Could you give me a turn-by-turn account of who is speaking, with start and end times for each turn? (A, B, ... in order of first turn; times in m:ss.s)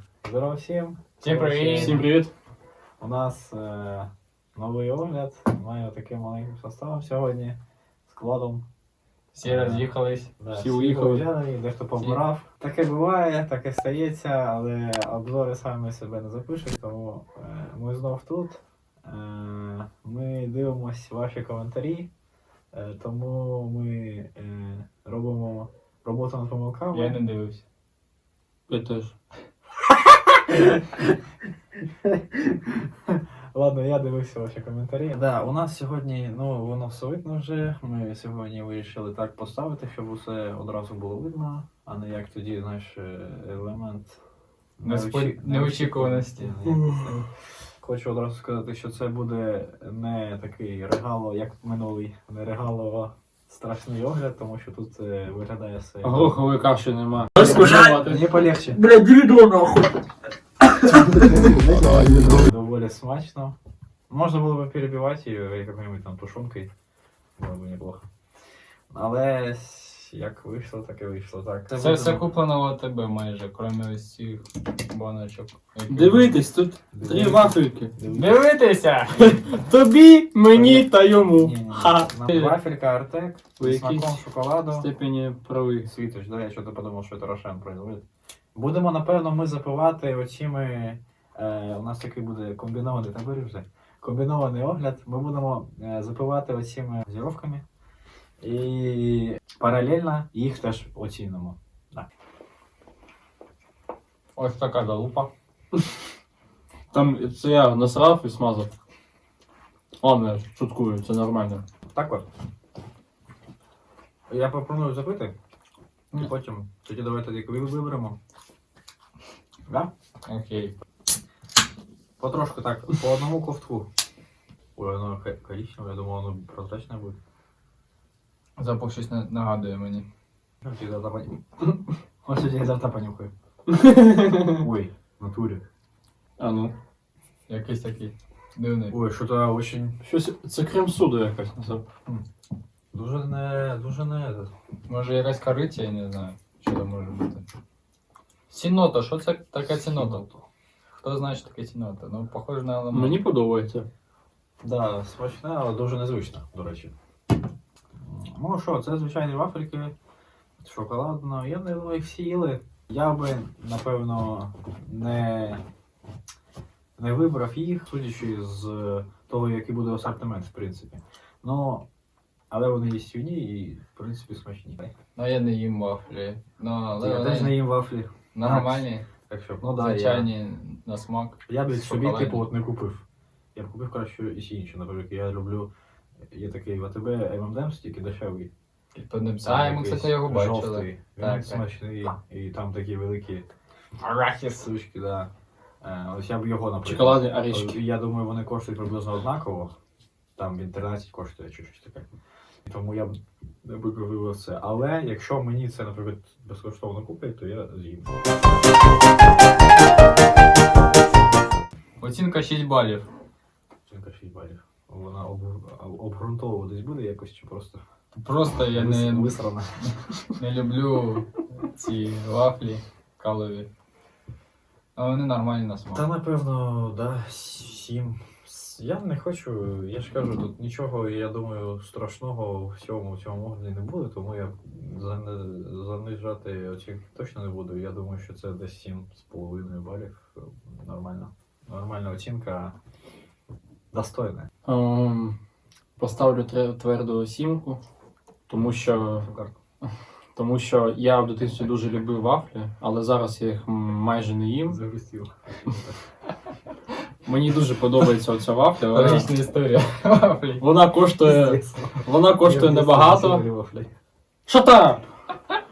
0:00.2-0:02.1 A
0:01.2-0:02.0 B
0:01.8-0:02.3 C
0:03.0-0:07.6 A
0:08.1-0:08.6 A
0:09.3-0:10.3 B
0:09.4-0:09.9 A
0:10.4-0:22.1 A
0:10.5-0:11.3 C
0:22.7-0:27.2 A
0:26.9-0:27.6 B
0:28.7-0:29.1 C
0:30.5-0:31.1 A
0:32.0-0:44.2 A
0:44.8-0:47.2 A
0:44.8-0:46.5 B
0:46.7-0:47.2 C
0:47.8-0:56.4 A
0:56.0-0:58.2 C
0:57.4-0:58.8 A
0:57.4-0:58.0 B
0:58.8-1:00.0 C
1:01.0-1:03.6 A
1:01.7-1:02.1 C
1:04.1-1:06.7 A
1:07.4-1:08.1 A
1:08.9-1:12.3 A
1:11.7-1:16.4 B
1:15.9-1:17.9 C
1:16.9-1:18.5 A
1:18.1-1:19.4 B
1:19.2-1:22.6 C
1:20.5-1:24.9 A
1:23.6-1:25.9 C
1:25.8-1:28.0 A
1:28.6-1:37.6 A
1:38.4-1:42.1 A
1:44.4-1:45.3 B
1:46.9-1:48.7 C
1:50.0-1:51.6 C
1:51.9-1:52.2 A
1:54.3-1:55.3 A
1:56.1-1:58.2 A
2:00.3-2:00.7 B
2:02.2-2:03.9 A
2:04.8-2:07.2 A
2:08.6-2:10.1 B
2:10.6-2:11.7 A
2:12.2-2:13.3 A
2:13.7-2:14.6 C
2:14.5-2:15.6 A
2:16.4-2:16.7 C
2:17.5-2:19.0 B
2:18.9-2:20.0 A
2:20.0-2:21.8 C
2:22.9-2:24.5 A
2:24.9-2:27.4 B
2:28.5-2:30.3 B
2:29.7-2:30.4 A
2:31.0-2:33.2 B
2:32.9-2:33.9 C
2:34.6-2:36.9 A
2:38.0-2:39.9 A
2:40.6-2:45.6 A
2:47.0-2:51.8 A
2:52.5-2:54.9 A
2:55.2-2:57.6 B
2:57.0-3:00.3 A
2:58.3-2:59.0 B
2:59.6-3:02.5 B
3:01.5-3:03.0 A
3:03.6-3:05.7 A
3:06.3-3:08.5 A
3:09.0-3:11.6 B
3:09.4-3:13.4 A
3:14.0-3:15.3 A
3:15.8-3:19.7 A
3:16.8-3:17.8 C
3:20.4-3:22.0 A
3:22.7-3:28.1 A
3:32.0-3:33.1 B
3:33.9-3:37.8 A
3:38.2-3:39.4 B
3:38.7-3:39.9 A
3:40.4-3:43.7 B
3:45.0-3:46.0 B
3:45.9-4:02.8 A
4:03.9-4:04.5 A
4:04.6-4:05.4 C
4:06.0-4:07.8 C
4:08.5-4:09.2 C
4:08.6-4:09.5 A
4:10.4-4:14.8 C
4:14.7-4:16.0 A
4:17.2-4:19.3 C
4:18.8-4:20.6 B
4:20.6-4:23.4 C
4:21.2-4:23.9 A
4:24.5-4:25.1 C